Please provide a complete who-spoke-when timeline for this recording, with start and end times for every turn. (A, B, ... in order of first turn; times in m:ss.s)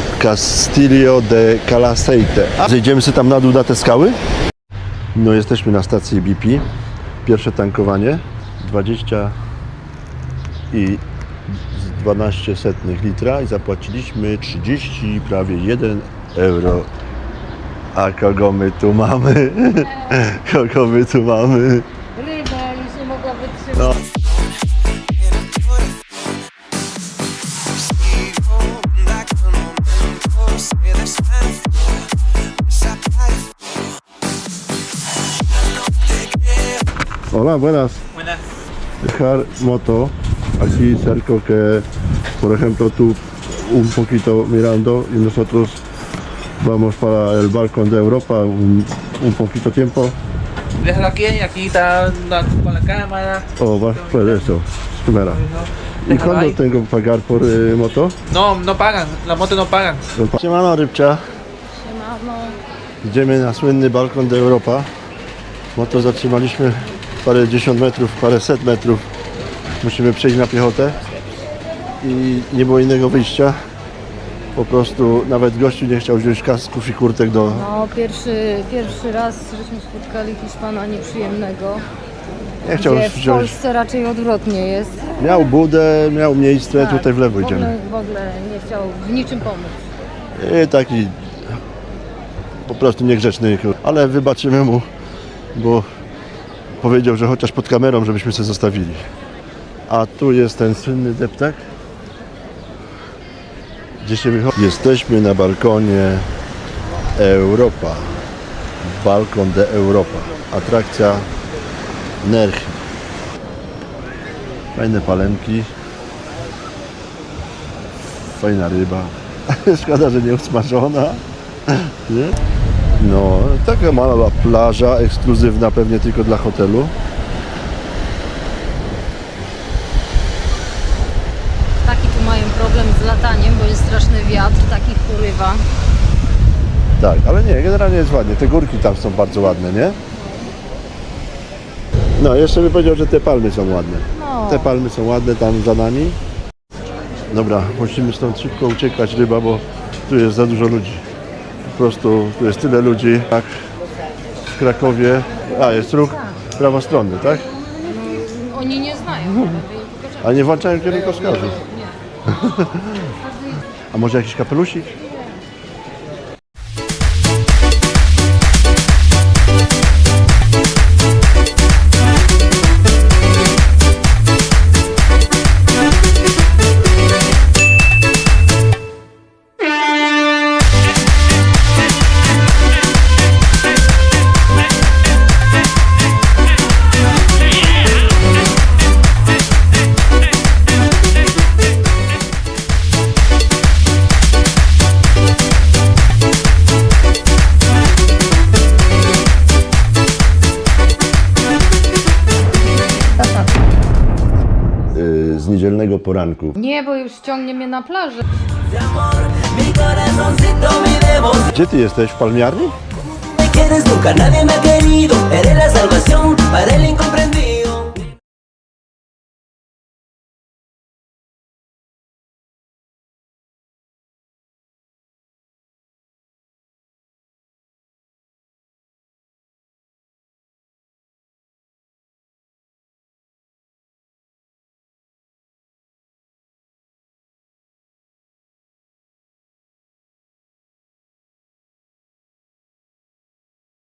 0:00.2-0:04.2 A
0:05.1-0:06.6 A
0:07.2-0:09.4 A
0:10.7-0:16.9 A
0:17.9-0:21.9 A
0:22.2-0:24.0 B
0:37.3-0:38.0 A
0:39.0-0:41.9 A
0:42.4-0:45.8 A
0:46.6-0:50.2 A
0:50.8-0:53.5 C
0:53.6-0:55.4 A
0:56.1-0:58.1 A
0:56.1-0:56.5 C
0:58.3-1:00.0 C
1:00.2-1:01.2 A
1:01.7-1:02.6 B
1:03.0-1:04.9 A
1:05.8-1:09.0 A
1:09.8-1:11.0 A
1:12.0-1:13.6 A
1:14.6-1:17.7 A
1:17.4-1:21.8 B
1:22.6-1:23.6 A
1:22.7-1:25.5 B
1:25.2-1:27.7 A
1:26.7-1:29.8 B
1:30.4-1:31.2 A
1:32.6-1:34.9 A
1:35.5-1:35.8 A
1:36.8-1:39.0 A
1:39.9-1:41.6 A
1:44.0-1:46.3 A
1:47.2-1:48.1 A
1:48.8-1:51.3 A
1:52.2-1:52.8 A
1:54.8-1:55.7 A
1:58.4-2:02.4 A
2:03.0-2:06.9 A
2:11.8-2:15.6 B
2:17.0-2:20.0 A
2:22.2-2:26.2 A
2:24.1-2:24.8 B
2:27.3-2:31.0 A
2:31.7-2:33.5 A
2:34.5-2:37.5 A
2:37.8-2:40.6 B
2:40.2-2:41.6 A
2:42.3-2:43.1 A
2:43.9-2:44.9 A
3:23.2-3:23.5 B
3:24.9-3:26.6 A
3:26.6-3:28.2 B
3:29.0-3:31.4 D
3:31.3-3:32.8 A
3:33.3-3:38.0 D